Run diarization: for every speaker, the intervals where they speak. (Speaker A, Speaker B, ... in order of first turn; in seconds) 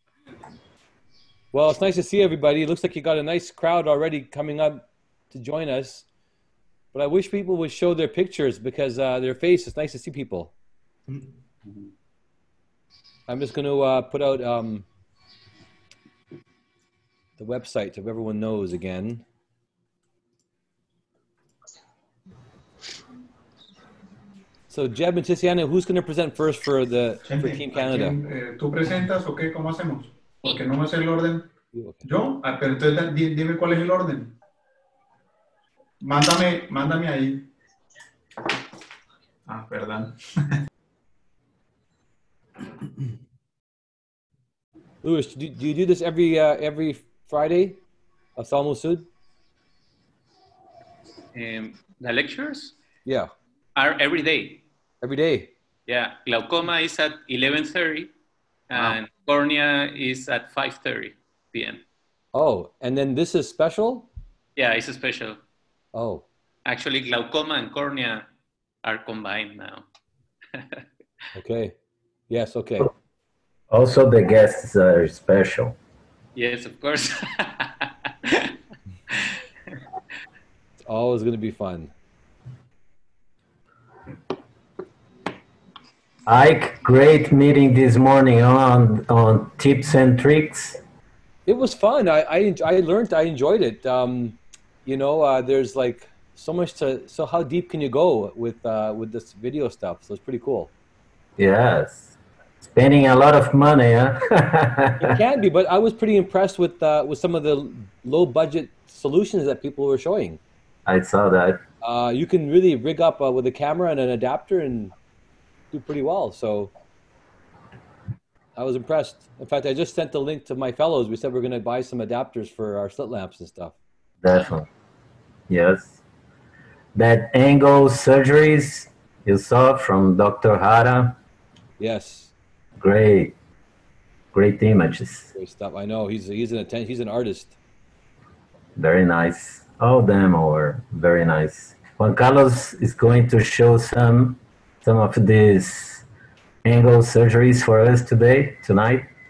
Speaker A: 1.5-6.0, 6.9-10.5, 13.3-14.8, 17.4-19.2, 24.7-28.2, 31.7-32.0, 45.0-47.8, 48.4-49.1, 53.0-53.3, 55.0-55.5, 62.3-64.1, 65.9-66.2, 71.3-71.7, 72.3-72.9, 80.8-81.9, 91.5-100.7, 105.0-110.4, 111.8-114.9, 115.7-116.7, 118.5-123.8, 131.8-132.3, 135.3-137.6
Speaker B: 11.1-11.4, 27.2-31.5, 32.0-34.3, 36.0-37.5, 39.5-40.6
Speaker C: 51.3-52.7, 53.8-54.6, 55.9-58.1, 58.7-61.8, 64.5-65.4, 66.7-68.2, 68.8-69.8, 70.5-70.8, 76.3-77.9
Speaker D: 73.7-75.7, 86.2-90.8, 101.4-102.1, 102.7-105.2, 110.8-111.6, 124.2-124.7, 125.5-126.0, 127.0-131.2, 132.8-133.3, 134.3-135.3, 138.8-146.0, 146.6-149.1